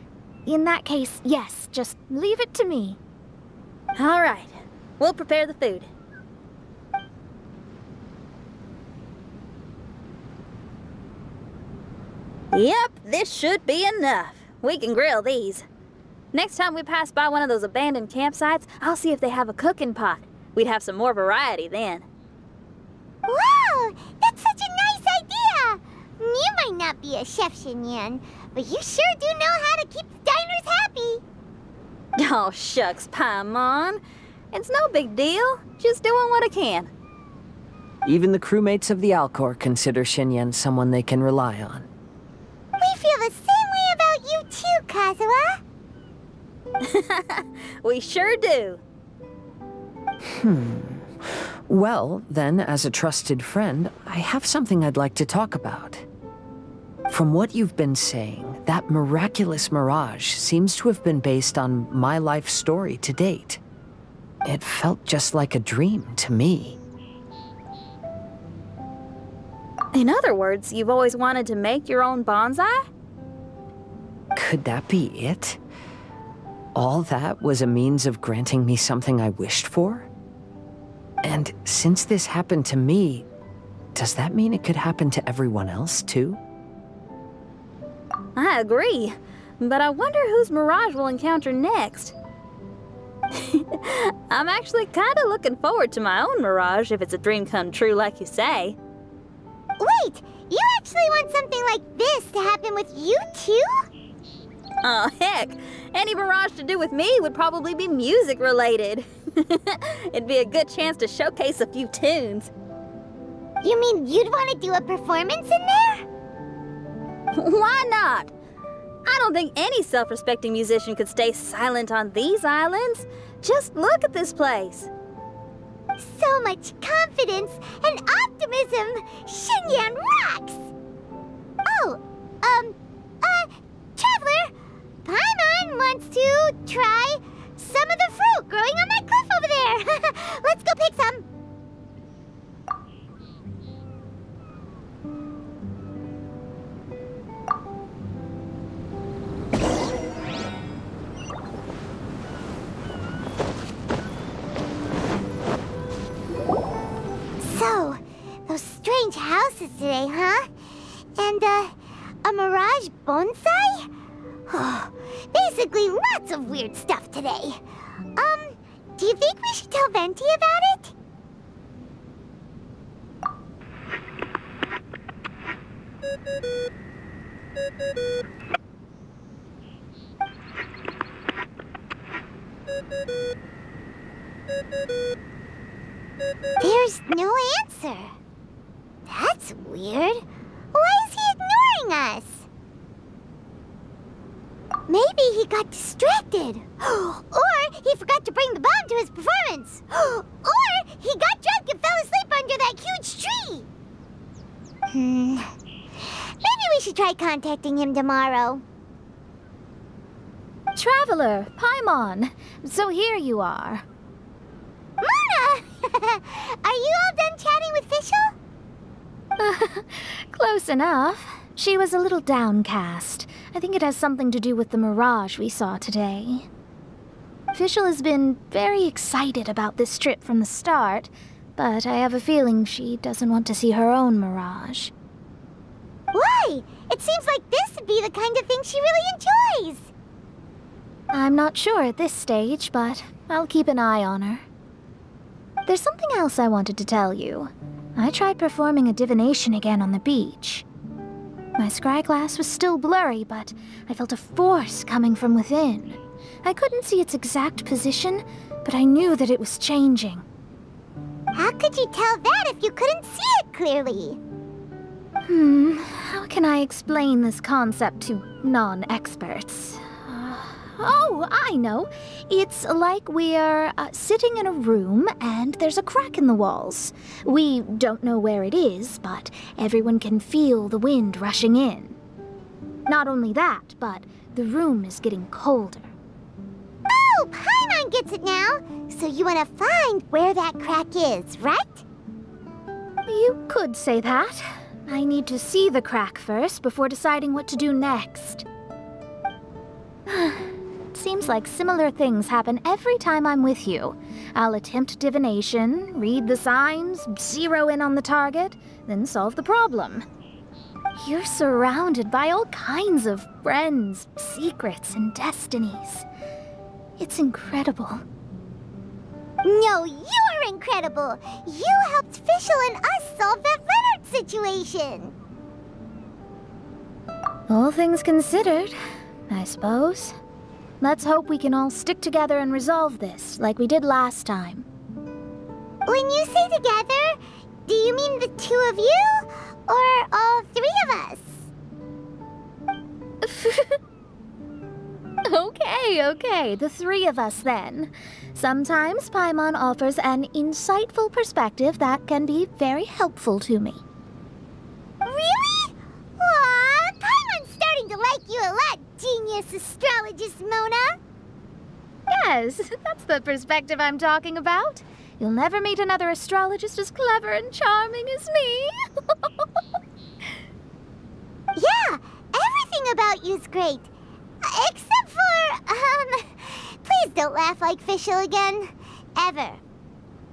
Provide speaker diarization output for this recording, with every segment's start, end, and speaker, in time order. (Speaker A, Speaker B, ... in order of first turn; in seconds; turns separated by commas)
Speaker A: 0.5-3.0, Speaker B: 4.0-5.9, Speaker B: 12.5-15.7, Speaker B: 16.3-22.0, Speaker C: 23.2-31.2, Speaker B: 32.2-34.0, Speaker B: 34.5-36.9, Speaker D: 38.0-41.9, Speaker C: 42.8-45.6, Speaker B: 46.8-48.8, Speaker D: 50.2-56.1, Speaker D: 57.1-63.6, Speaker D: 64.4-66.8, Speaker B: 69.9-72.9, Speaker D: 74.3-75.6, Speaker D: 76.7-80.1, Speaker D: 81.2-83.3, Speaker D: 83.9-86.4, Speaker B: 88.3-92.1, Speaker B: 93.3-98.8, Speaker C: 99.8-103.8, Speaker B: 104.8-112.5, Speaker C: 113.6-116.0, Speaker B: 117.3-118.3, Speaker B: 119.0-124.9, Speaker C: 126.0-130.7, Speaker C: 131.7-134.5, Speaker C: 135.0-141.2, Speaker C: 157.4-160.5, Speaker C: 161.2-163.9, Speaker C: 164.5-167.6, Speaker C: 168.2-170.9, Speaker C: 186.6-188.1, Speaker C: 189.1-190.2, Speaker C: 190.7-192.5, Speaker C: 194.9-203.7, Speaker C: 204.9-208.6, Speaker A: 210.8-213.8, Speaker C: 215.0-218.3, Speaker A: 219.4-226.5, Speaker A: 227.5-234.9, Speaker C: 236.1-239.9, Speaker A: 241.1-244.5, Speaker A: 245.7-250.7, Speaker A: 251.6-260.2, Speaker C: 261.4-264.2, Speaker A: 265.3-282.0, Speaker A: 282.9-285.9, Speaker C: 286.9-291.8, Speaker A: 293.1-298.4, Speaker A: 300.1-310.0, Speaker A: 310.9-316.1, Speaker A: 317.0-318.0, Speaker C: 319.4-325.1, Speaker A: 327.5-328.8, Speaker A: 329.3-330.1, Speaker A: 330.8-334.7, Speaker C: 335.9-341.5, Speaker A: 343.2-343.8, Speaker A: 345.2-353.8, Speaker C: 355.1-361.0, Speaker A: 362.1-369.4, Speaker C: 371.6-373.9, Speaker C: 374.4-379.6